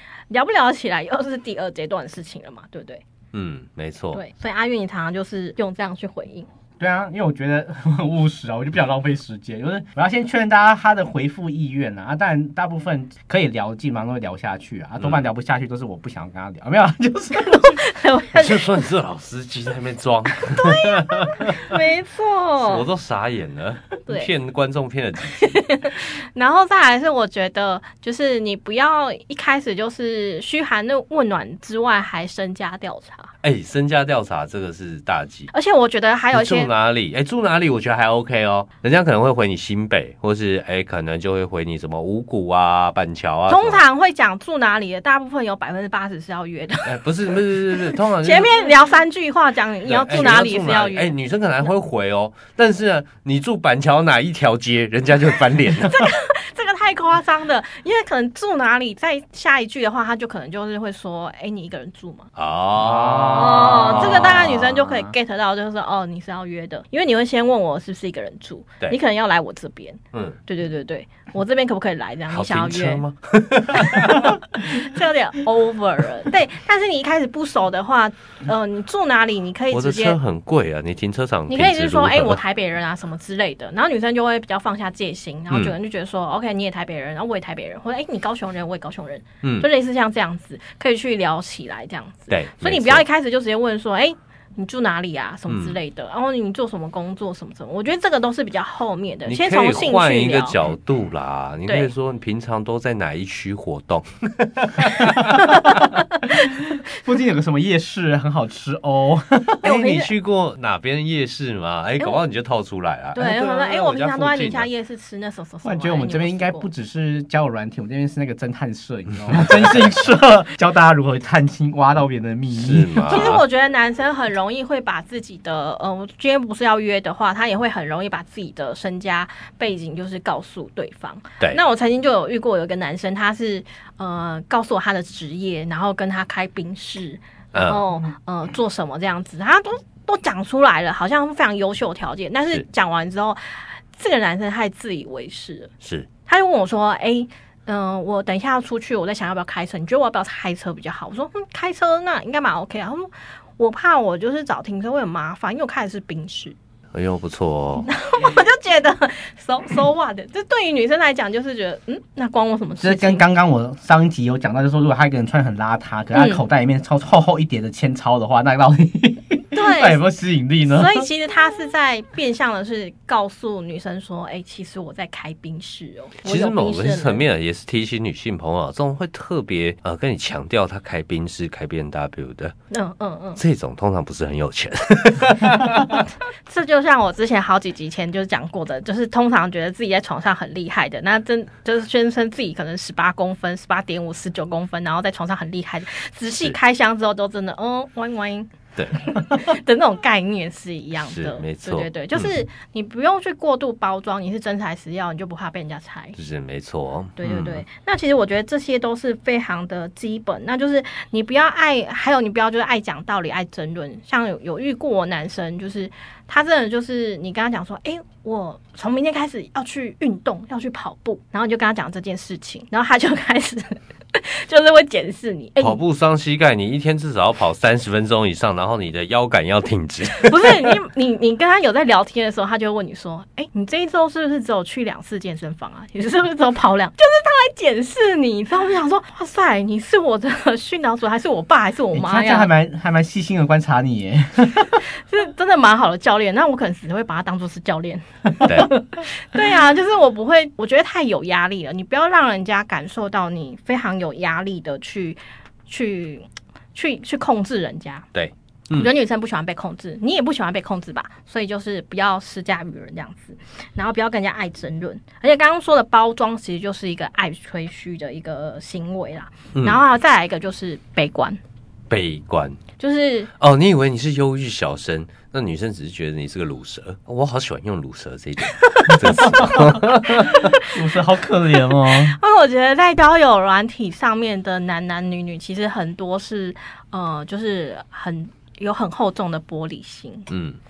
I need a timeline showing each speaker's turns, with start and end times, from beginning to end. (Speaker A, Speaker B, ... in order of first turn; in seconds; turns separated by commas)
Speaker A: 0.3-3.0, Speaker B: 3.3-4.2, Speaker A: 4.1-6.5, Speaker C: 6.8-17.7, Speaker B: 15.0-15.2, Speaker A: 17.3-18.7, Speaker B: 18.3-21.7, Speaker A: 20.5-22.9, Speaker B: 22.6-25.7, Speaker A: 25.4-33.3, Speaker B: 33.4-35.5, Speaker A: 35.5-36.7, Speaker B: 36.3-43.8, Speaker A: 43.5-51.1, Speaker B: 46.8-48.7, Speaker B: 49.9-56.1, Speaker A: 55.9-62.3, Speaker B: 62.4-64.6, Speaker C: 62.8-65.1, Speaker A: 63.3-73.0, Speaker B: 72.3-74.3, Speaker A: 73.7-80.2, Speaker B: 79.7-82.4, Speaker A: 81.5-100.6, Speaker B: 85.5-85.7, Speaker B: 89.4-89.7, Speaker B: 92.3-93.0, Speaker B: 95.5-95.8, Speaker B: 99.2-105.8, Speaker A: 101.7-101.9, Speaker C: 105.4-109.8, Speaker A: 109.6-110.1, Speaker B: 109.6-114.7, Speaker A: 113.1-116.7, Speaker C: 115.6-123.4, Speaker B: 119.3-119.6, Speaker B: 122.5-123.4, Speaker A: 123.1-145.7, Speaker B: 137.5-137.8, Speaker B: 145.8-146.1, Speaker A: 146.2-156.6, Speaker B: 156.9-157.9, Speaker A: 157.8-163.2, Speaker C: 162.8-171.1, Speaker A: 166.1-166.4, Speaker A: 169.5-170.0, Speaker A: 170.7-177.2, Speaker B: 176.2-182.5, Speaker A: 182.7-183.4, Speaker B: 183.4-186.0, Speaker A: 186.4-206.2, Speaker B: 198.8-199.0, Speaker B: 201.1-202.3, Speaker B: 206.2-207.6, Speaker A: 207.2-225.8, Speaker B: 225.6-230.8, Speaker A: 230.2-242.5, Speaker C: 241.9-244.8, Speaker A: 244.9-258.1, Speaker B: 248.4-248.7, Speaker B: 258.1-258.9, Speaker A: 258.7-271.4, Speaker B: 269.5-269.8, Speaker B: 271.9-272.6, Speaker A: 272.8-273.3, Speaker B: 273.4-280.4, Speaker C: 279.2-282.1, Speaker A: 280.2-280.7, Speaker A: 281.8-290.3, Speaker B: 290.3-290.6